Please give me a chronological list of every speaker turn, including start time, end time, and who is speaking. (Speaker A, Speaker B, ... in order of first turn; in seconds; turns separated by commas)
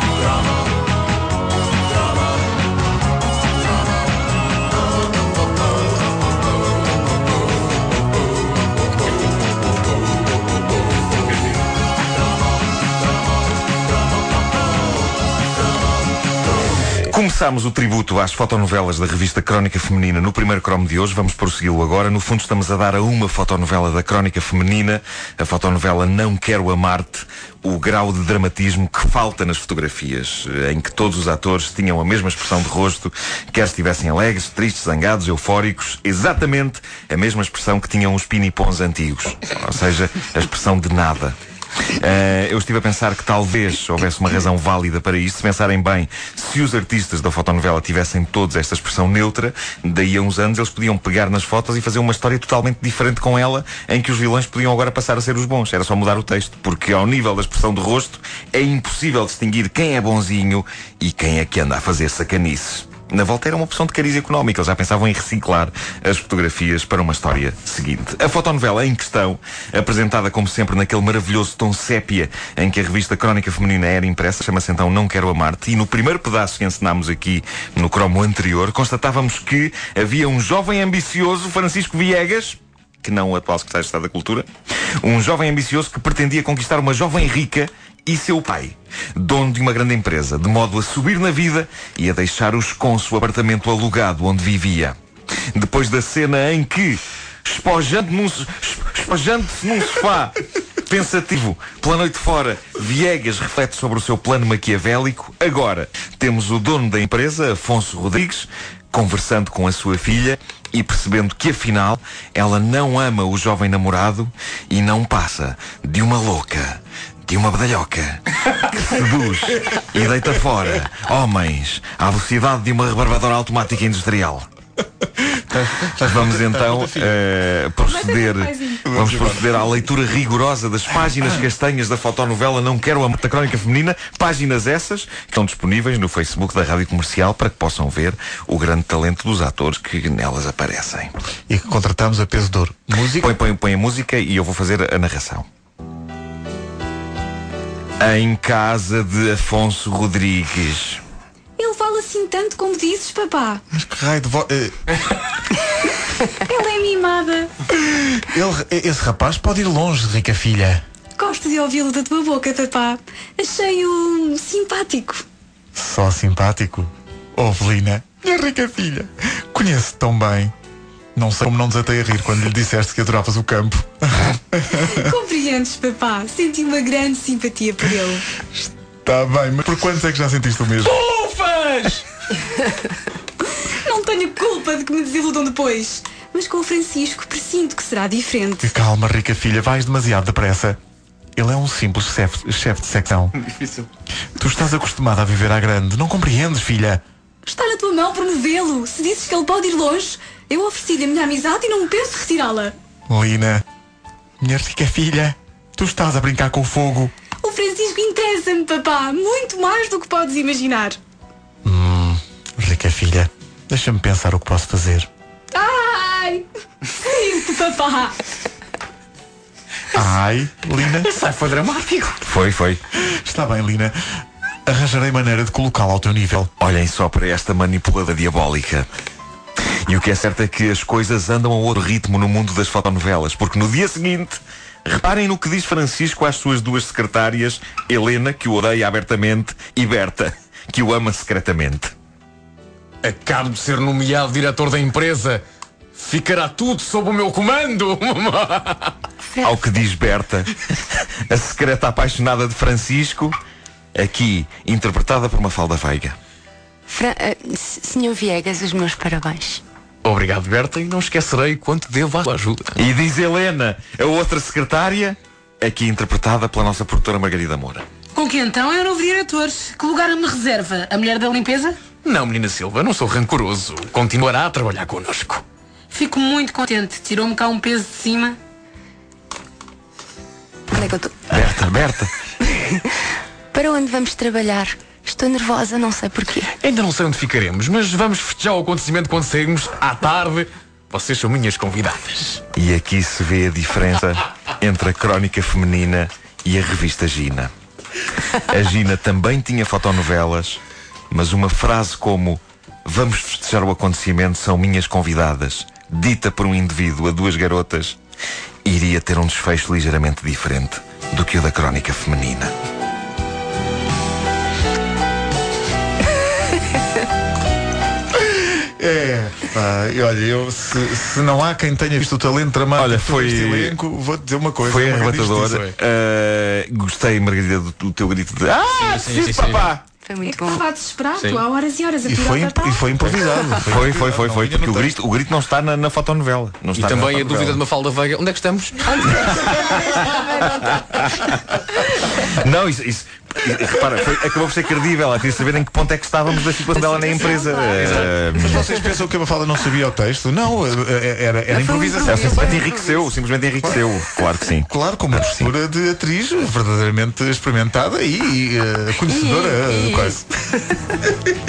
Speaker A: 17.1-41.4, Speaker A: 42.0-84.5, Speaker A: 85.0-95.0, Speaker A: 95.5-124.5, Speaker B: 125.2-127.2, Speaker A: 126.0-141.1, Speaker C: 127.8-128.8, Speaker B: 128.8-129.5, Speaker B: 131.2-131.5, Speaker B: 141.5-143.4, Speaker A: 143.2-145.5, Speaker A: 148.0-151.0, Speaker C: 151.6-153.6, Speaker B: 153.7-154.9, Speaker C: 156.4-157.5, Speaker B: 157.7-160.8, Speaker C: 161.2-165.2, Speaker B: 165.8-170.5, Speaker B: 171.2-175.0, Speaker C: 174.7-178.3, Speaker B: 178.5-181.0, Speaker D: 180.9-182.0, Speaker C: 183.6-188.7, Speaker B: 188.6-190.8, Speaker B: 191.4-193.4, Speaker B: 194.4-197.0, Speaker C: 197.5-202.8, Speaker B: 203.1-203.6, Speaker B: 204.4-207.1, Speaker C: 207.4-211.0, Speaker B: 211.7-215.1, Speaker C: 215.5-218.2, Speaker B: 219.9-221.1, Speaker D: 220.9-222.2, Speaker A: 222.2-222.8, Speaker B: 222.9-224.0, Speaker B: 224.7-226.5, Speaker A: 226.6-228.9, Speaker A: 229.9-241.9, Speaker D: 243.0-245.4, Speaker D: 245.9-248.9, Speaker E: 249.3-249.6, Speaker A: 249.4-253.4, Speaker A: 253.9-256.2, Speaker E: 256.9-259.6, Speaker D: 260.1-262.8, Speaker A: 262.8-267.9, Speaker F: 268.1-271.8, Speaker D: 272.0-275.4, Speaker F: 275.9-278.4, Speaker E: 280.7-281.3, Speaker A: 281.3-282.1, Speaker E: 282.4-283.0, Speaker E: 283.5-286.5, Speaker D: 286.5-292.4, Speaker A: 292.5-297.5, Speaker A: 298.3-308.0, Speaker A: 308.6-312.5, Speaker B: 318.2-325.6, Speaker A: 322.8-323.8, Speaker A: 324.6-329.8, Speaker D: 325.5-325.8, Speaker D: 328.7-329.7, Speaker E: 330.0-330.6, Speaker C: 330.2-333.5, Speaker D: 331.2-331.4, Speaker B: 332.0-335.0, Speaker A: 333.6-337.6, Speaker D: 336.8-339.5, Speaker E: 339.1-340.7, Speaker A: 339.3-339.7, Speaker A: 340.6-341.7, Speaker A: 342.2-348.8, Speaker E: 346.8-348.0, Speaker D: 347.7-348.1, Speaker B: 348.4-352.6, Speaker E: 351.5-353.1, Speaker A: 352.0-355.5, Speaker B: 354.7-360.2, Speaker E: 359.1-360.8